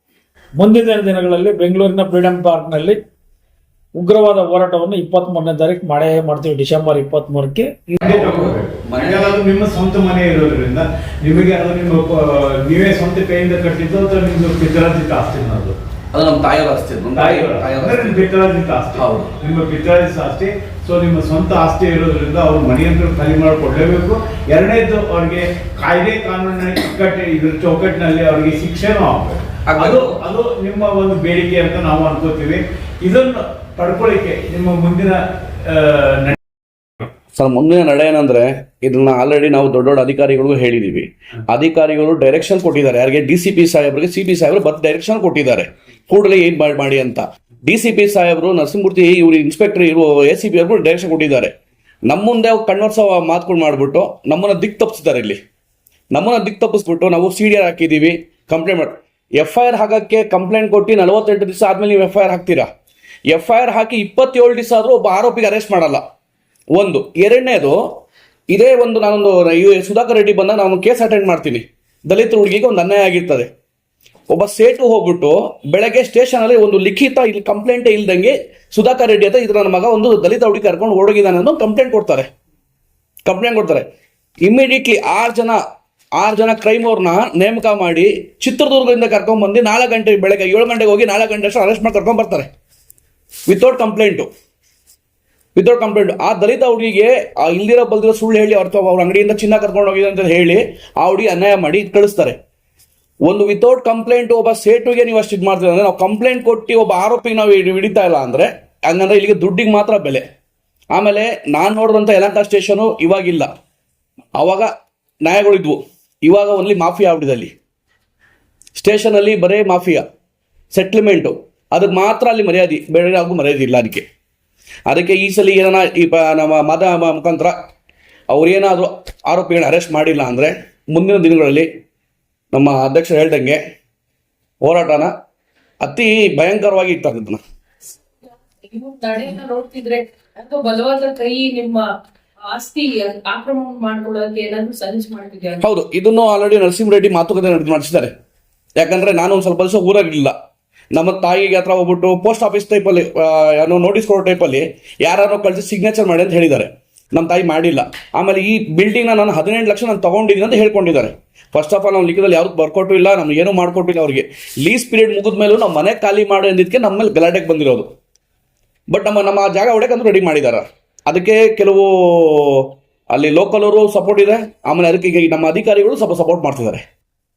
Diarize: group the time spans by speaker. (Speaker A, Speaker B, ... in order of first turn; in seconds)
Speaker A: 0.6-3.0, 4.0-8.1
Speaker B: 8.0-15.7, 17.1-36.4
Speaker C: 8.1-9.3, 16.1-18.3, 18.9-19.3, 29.7-30.1, 37.3-51.5, 52.1-55.4, 56.1-62.7, 63.3-66.0, 66.7-73.5, 74.3-82.3, 83.2-83.9, 84.4-85.6, 86.2-92.5, 93.5-94.3, 95.5-102.4, 103.2-110.2, 110.9-113.5, 114.4-114.7, 115.2-117.5, 118.8-120.0, 120.7-124.0, 124.9-127.5, 128.3-131.7, 132.5-133.6, 134.6-135.1, 135.8-137.4, 145.6-148.1, 148.8-150.3, 150.9-167.9, 168.9-176.8
Speaker D: 138.7-141.9, 142.4-145.6